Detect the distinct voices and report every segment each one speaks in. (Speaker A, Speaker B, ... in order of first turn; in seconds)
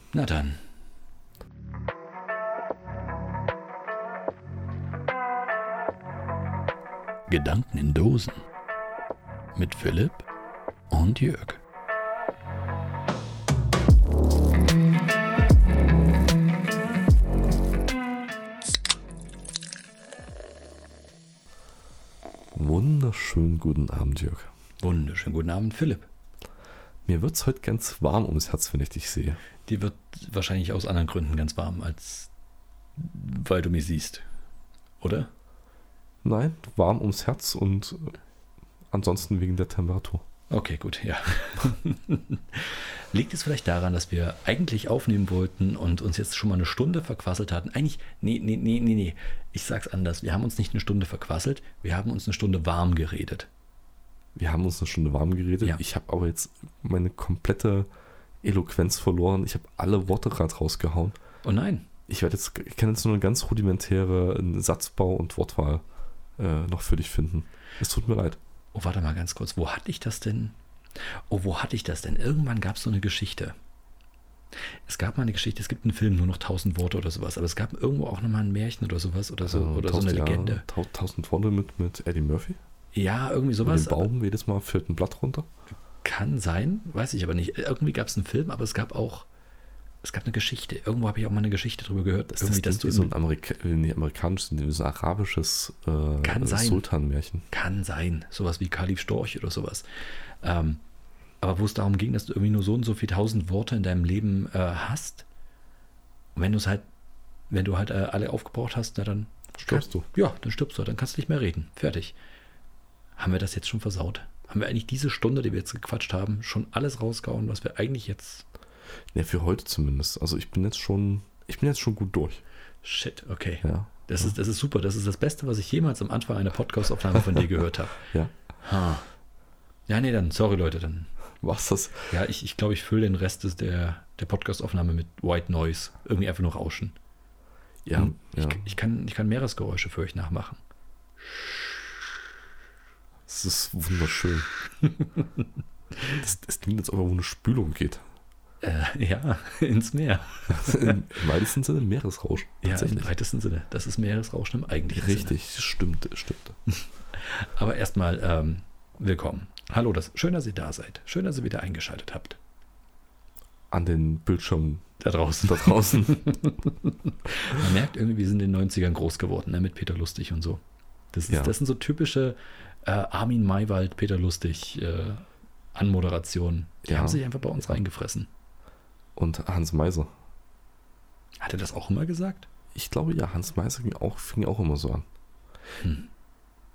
Speaker A: 0.1-0.6, 7.3-8.4, 9.6-10.3, 10.9-11.6, 24.8-26.1, 29.7-32.3, 33.0-34.2, 35.0-35.3, 40.5-53.5, 61.5-61.9, 68.7-70.6, 71.3-73.5, 74.9-80.7, 82.9-84.1, 86.0-89.3, 90.0-93.1, 96.2-96.8, 97.5-99.8, 100.4-100.8, 101.4-105.3, 106.4-106.9, 107.5-112.2, 113.2-118.5, 122.8-128.1, 128.6-129.1, 129.9-131.1, 132.1-136.9, 137.9-140.6, 141.3-141.8, 148.6-151.1, 152.6-155.3, 157.2-162.4, 165.0-170.6, 171.1-178.3, 181.4-182.5, 185.8-186.1
Speaker B: 22.5-24.5, 27.1-29.4, 36.2-38.1, 38.9-40.2, 54.4-57.9, 58.4-61.2, 62.1-65.8, 66.4-68.4, 79.4-82.6, 83.6-85.5, 92.3-97.5, 109.6-110.0, 119.1-122.4, 123.6-124.3, 128.1-128.3, 131.4-132.2, 137.9-138.6, 143.3-144.5, 146.1-148.1, 150.5-153.1, 154.9-156.6, 163.7-164.9, 165.4-166.4, 171.3-171.5, 176.9-177.8, 179.2-180.1, 182.7-185.1